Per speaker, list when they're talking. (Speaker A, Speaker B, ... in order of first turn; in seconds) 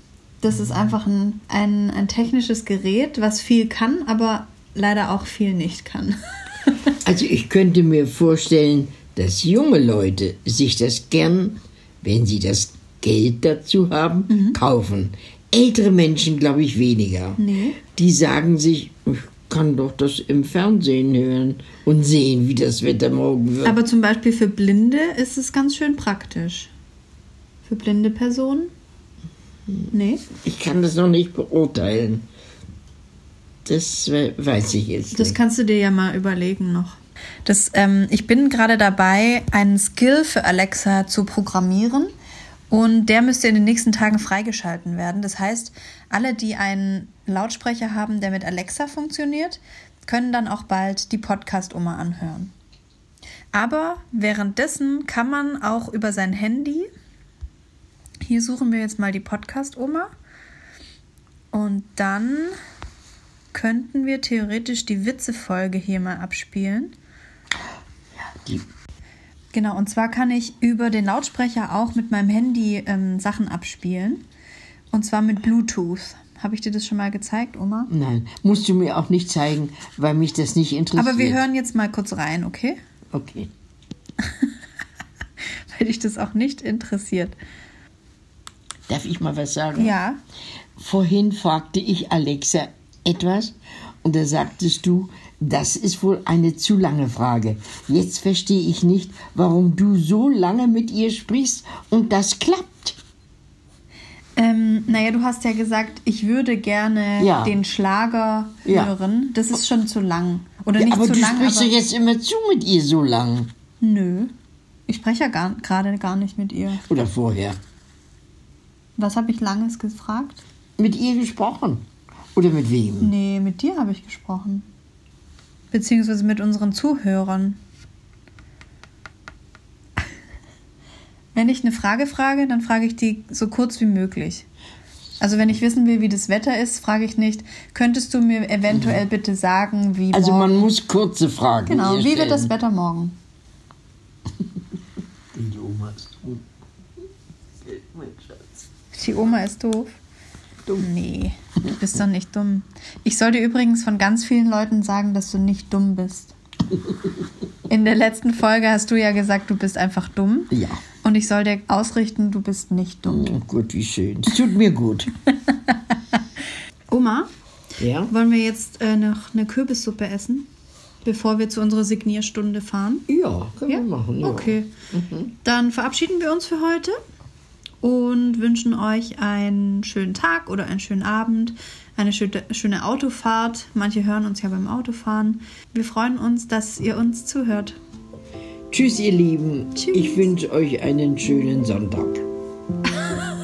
Speaker A: 0.4-6.2, 6.7-6.9, 14.3-14.6, 17.4-17.8, 23.6-26.7, 27.6-28.7, 29.9-30.2, 35.1-42.1, 42.7-52.5, 53.5-56.9, 58.2-60.1, 61.5-62.5, 63.5-66.9, 69.5-74.2, 74.9-77.9, 81.0-82.8, 85.7-87.3, 89.8-90.2, 104.4-111.7, 113.8-114.3, 114.9-116.8, 119.0-120.4, 123.0-124.7, 125.7-127.6, 131.3-134.4, 135.2-140.7, 141.7-143.2, 148.9-149.9, 150.8-156.3, 157.7-163.3, 166.9-167.3, 168.1-170.5, 171.0-173.0, 173.7-174.7, 175.4-176.9, 177.8-187.8, 189.7-190.3
Speaker B: 7.0-23.8, 30.4-32.2, 33.6-35.4, 77.9-81.4, 83.1-83.5, 88.9-90.0, 90.8-103.0, 107.2-107.5, 108.7-108.9, 110.8-113.5, 116.9-117.6, 120.8-121.8, 122.3-123.1, 138.7-139.0, 140.1-142.5, 145.3-146.4, 147.7-148.6, 160.5-160.8, 163.1-165.1, 167.8-168.1, 173.1-175.3, 188.7-192.2